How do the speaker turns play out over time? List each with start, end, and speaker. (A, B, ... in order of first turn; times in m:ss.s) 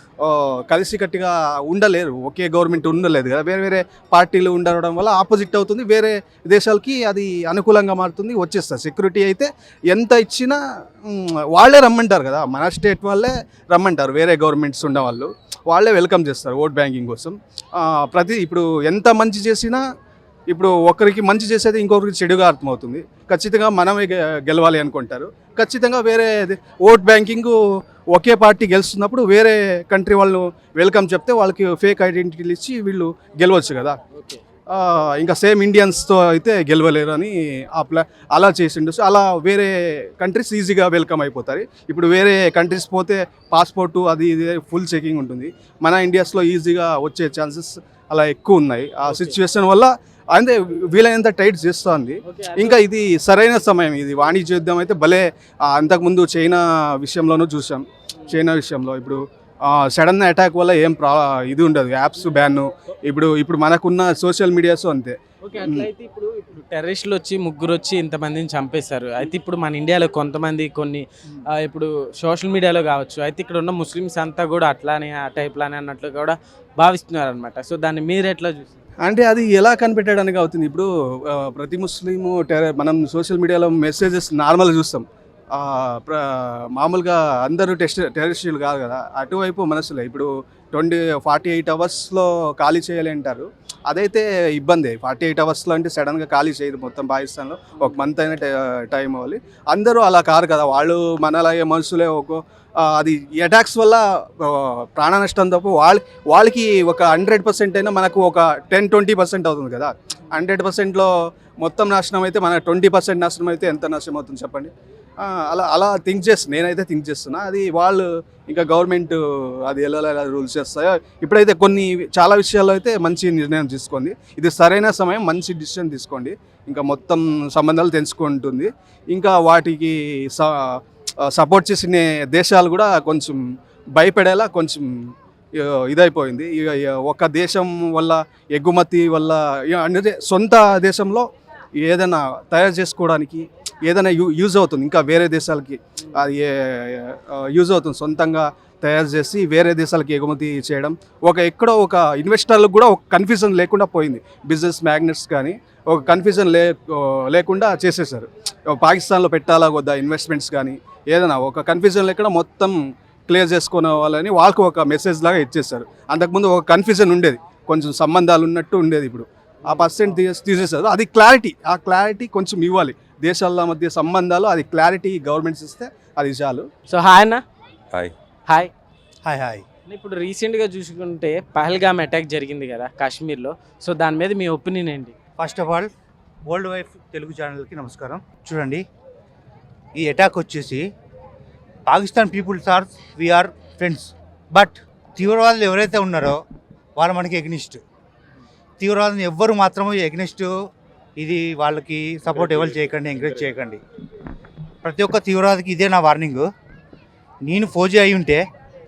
0:00.2-0:19.8 A
0:20.5-0:27.6 A
0:28.1-0:34.0 A
0:34.1-0:34.4 B
0:34.7-1:05.9 A
0:49.1-0:49.4 B
0:52.2-0:52.8 B
1:05.4-1:18.8 B
1:19.0-2:13.4 A
2:14.0-2:21.3 A
2:21.8-2:42.8 A
2:26.0-2:26.3 B
2:43.3-2:56.7 A
2:56.9-2:57.4 B
2:59.2-2:59.6 C
2:59.9-3:05.2 B
3:05.4-3:05.9 C
3:06.5-3:08.8 C
3:10.0-3:10.8 C
3:11.9-3:16.4 C
3:17.0-3:17.8 C
3:18.8-3:20.5 C
3:21.2-3:23.8 C
3:24.8-3:26.5 C
3:27.4-3:28.4 C